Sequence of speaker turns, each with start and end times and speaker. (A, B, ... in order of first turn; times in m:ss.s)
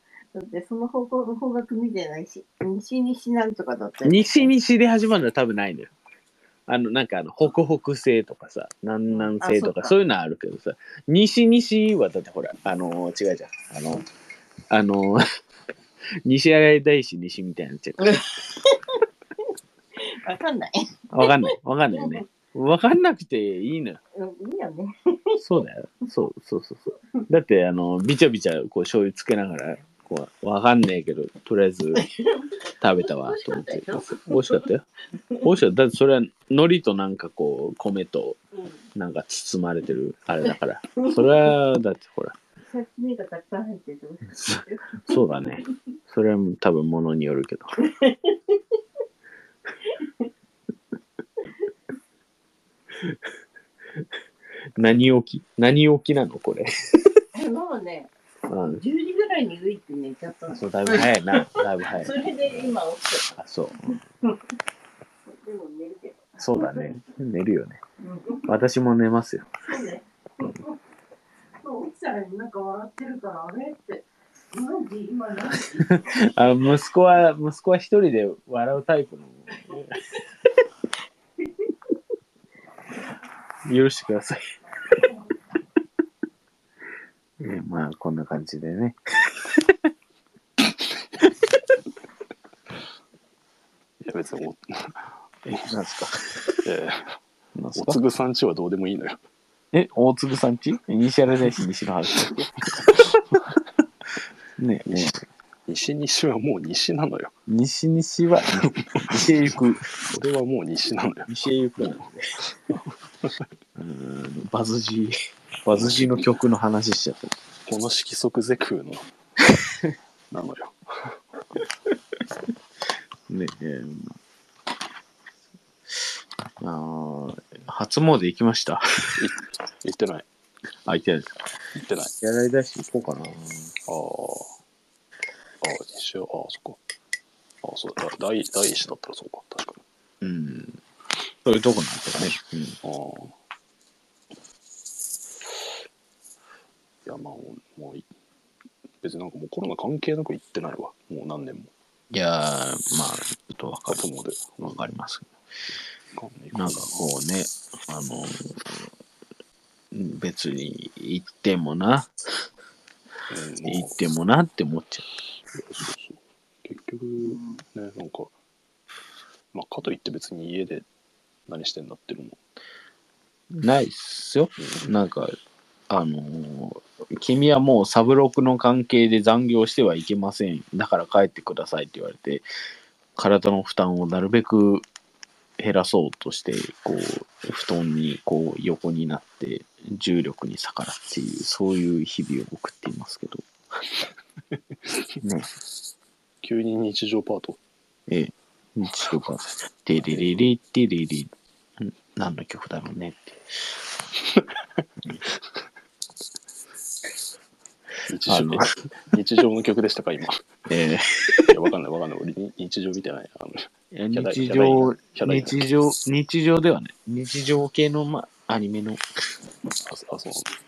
0:00.3-0:04.5 A
0:04.0-0:05.9 B
0:06.7-0:14.0 B
0:09.1-0:09.9 A
0:14.7-0:15.2 B
0:16.2-0:18.2 B
0:20.0-0:22.2 A
0:21.1-0:24.0 B
0:24.1-0:25.4 A
0:25.4-0:32.0 B
0:31.9-0:34.7 A
0:32.8-0:34.8 B
0:35.4-0:38.4 B
0:38.5-0:38.8 A
0:39.0-0:42.4 B
0:41.0-0:41.5 A
0:42.6-0:45.7 A
0:44.4-0:47.7 B
0:47.9-0:48.6 A
0:54.8-0:57.2 B
0:57.3-0:58.1 A
0:58.5-0:58.8 B
0:58.8-1:03.3 A
1:00.5-1:02.7 B
1:03.3-1:04.0 B
1:03.9-1:04.3 A
1:05.2-1:06.9 A
1:06.4-1:07.8 B
1:08.0-1:08.5 A
1:08.5-1:09.5 B
1:09.6-1:10.8 A
1:11.6-1:16.3 A
1:15.8-1:19.6 B
1:23.6-1:24.5 B
1:27.4-1:29.8 B
1:34.0-1:35.7 C
1:35.5-1:36.5 B
1:36.6-1:37.2 C
1:37.5-1:38.0 B
1:37.7-1:39.2 C
1:39.7-1:43.4 B
1:44.6-1:45.2 B
1:44.9-1:47.3 C
1:47.5-1:49.8 B
1:48.6-1:49.2 C
1:50.0-1:51.9 C
1:51.3-1:52.3 B
1:53.8-1:57.3 B
1:55.7-1:56.2 C
1:57.7-1:59.1 C
2:00.3-2:01.2 C
2:03.3-2:04.2 B
2:06.6-2:09.2 B
2:09.2-2:10.3 C
2:10.8-2:11.3 B
2:11.7-2:12.1 C
2:12.2-2:13.7 B
2:13.9-2:14.5 C
2:15.6-2:16.8 C
2:17.6-2:19.8 C
2:20.2-2:20.8 B
2:21.4-2:22.8 B
2:22.8-2:23.4 C
2:27.0-2:28.1 C
2:29.0-2:31.7 C
2:32.1-2:34.0 B
2:33.9-2:34.8 C
2:34.6-2:35.3 B
2:36.1-2:37.0 C
2:36.5-2:38.8 B
2:39.9-2:42.1 B
2:43.3-2:44.0 C
2:43.6-2:45.0 B
2:45.5-2:48.3 C
2:49.5-2:50.9 C
2:51.5-2:52.4 C
2:53.5-2:55.4 B
2:54.6-2:54.9 C
2:55.9-3:02.4 B
3:03.2-3:04.8 B
3:05.6-3:13.4 B
3:15.2-3:15.5 B
3:16.4-3:17.6 C
3:18.1-3:23.3 B
3:28.1-3:30.5 C
3:28.3-3:28.7 B
3:30.7-3:31.5 B
3:31.4-3:35.6 C
3:33.9-3:39.0 B
3:39.8-3:40.5 C